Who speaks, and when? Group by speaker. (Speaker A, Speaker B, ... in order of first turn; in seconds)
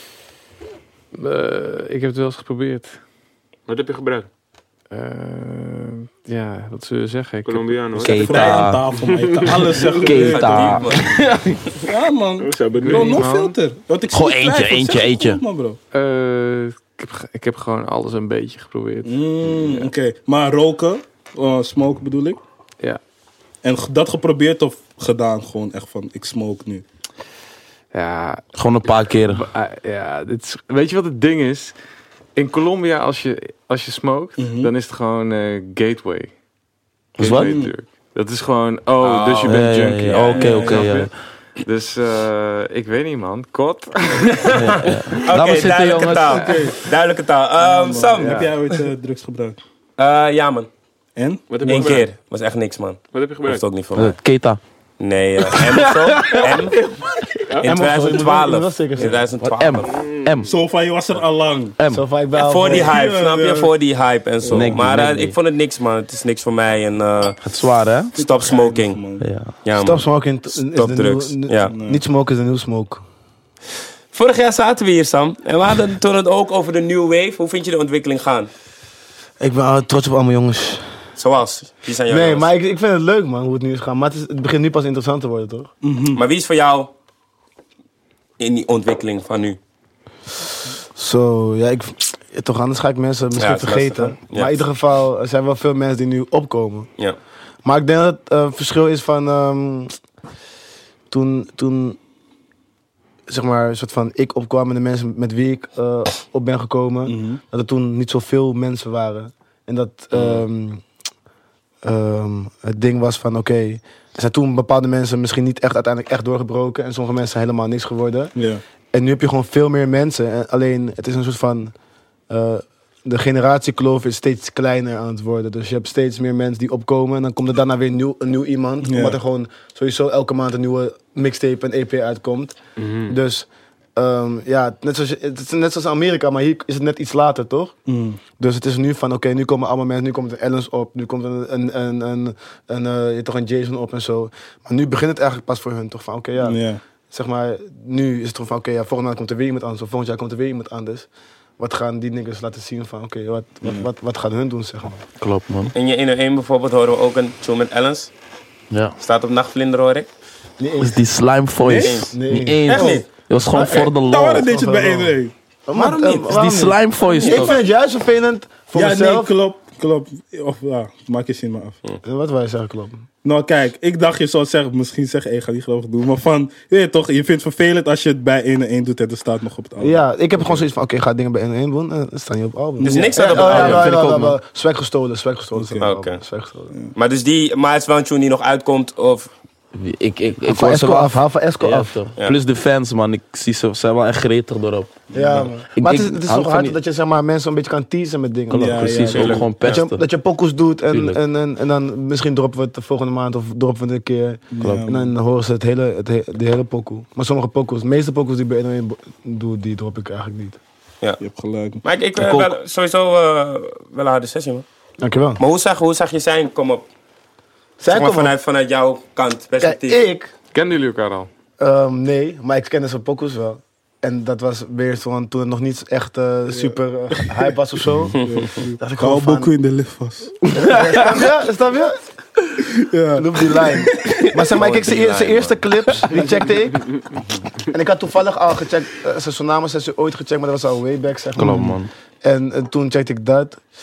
Speaker A: 1.1-3.0, 4.9-7.9, 12.8-13.6, 15.9-19.9, 27.9-31.7, 32.4-36.3, 37.2-41.1, 41.6-44.5, 220.5-221.3
Speaker B: 3.7-4.3, 7.4-10.1, 12.4-13.3, 51.5-52.0, 53.1-53.6, 59.9-60.5, 132.8-133.1
Speaker C: 7.9-8.8, 9.9-11.8, 14.1-15.4, 28.5-29.5, 37.2-37.5, 39.4-41.1, 44.5-46.5, 54.0-54.6, 55.5-56.6, 59.4-60.5, 61.8-62.0, 64.5-65.3, 67.4-68.1, 69.2-69.5, 155.2-155.7, 158.7-158.9, 160.8-164.5, 165.8-167.5, 183.3-184.4, 189.7-195.0, 195.7-196.7, 198.5-200.0, 200.9-201.2, 204.6-204.8, 212.2-212.5, 241.3-241.9
Speaker D: 8.0-10.8, 11.8-15.8, 19.0-22.4, 23.6-26.8, 34.4-34.7, 37.2-37.7, 40.3-41.0, 46.3-46.9, 47.6-49.6, 51.1-52.0, 60.4-61.8, 62.5-63.7, 68.2-69.2, 71.7-72.0, 85.8-86.2, 107.0-107.4, 118.3-118.6, 128.8-129.2, 137.9-138.2, 146.4-146.8, 153.6-153.9, 161.6-162.1, 163.5-165.3, 167.1-167.5, 168.7-171.8, 173.2-180.6, 182.8-183.9, 185.5-185.9, 195.1-195.5, 198.5-199.5, 204.5-205.1, 211.2-211.8, 226.5-227.4, 228.2-230.3, 232.6-234.4
Speaker E: 10.2-11.2, 39.0-39.6, 44.2-48.5, 50.0-50.7, 51.6-54.2, 55.0-56.8, 57.6-60.0, 62.4-67.4, 68.1-69.0, 69.6-71.7, 74.1-78.5, 81.2-82.5, 86.1-86.9, 88.4-89.6, 93.3-94.6, 155.7-158.1, 159.0-160.1, 161.8-162.1, 162.7-163.1, 182.8-183.9, 185.8-186.2, 186.9-189.3, 211.8-214.6, 215.4-216.8, 217.9-220.0, 228.2-228.5, 234.5-235.6
Speaker F: 57.6-59.2, 61.9-62.9, 69.7-73.0, 79.4-80.9, 82.1-85.7, 90.9-96.9, 97.6-99.9, 101.1-102.0, 103.3-110.8, 111.8-118.3, 118.9-121.7, 122.3-137.7, 138.4-151.1, 151.6-155.0, 160.6-161.0, 162.1-165.1, 165.7-169.3, 172.0-173.0, 179.8-186.7, 190.4-191.9, 195.1-210.6, 215.0-215.4, 217.8-218.3, 219.6-220.3, 221.6-229.5, 230.6-232.0, 233.1-236.9, 237.6-243.6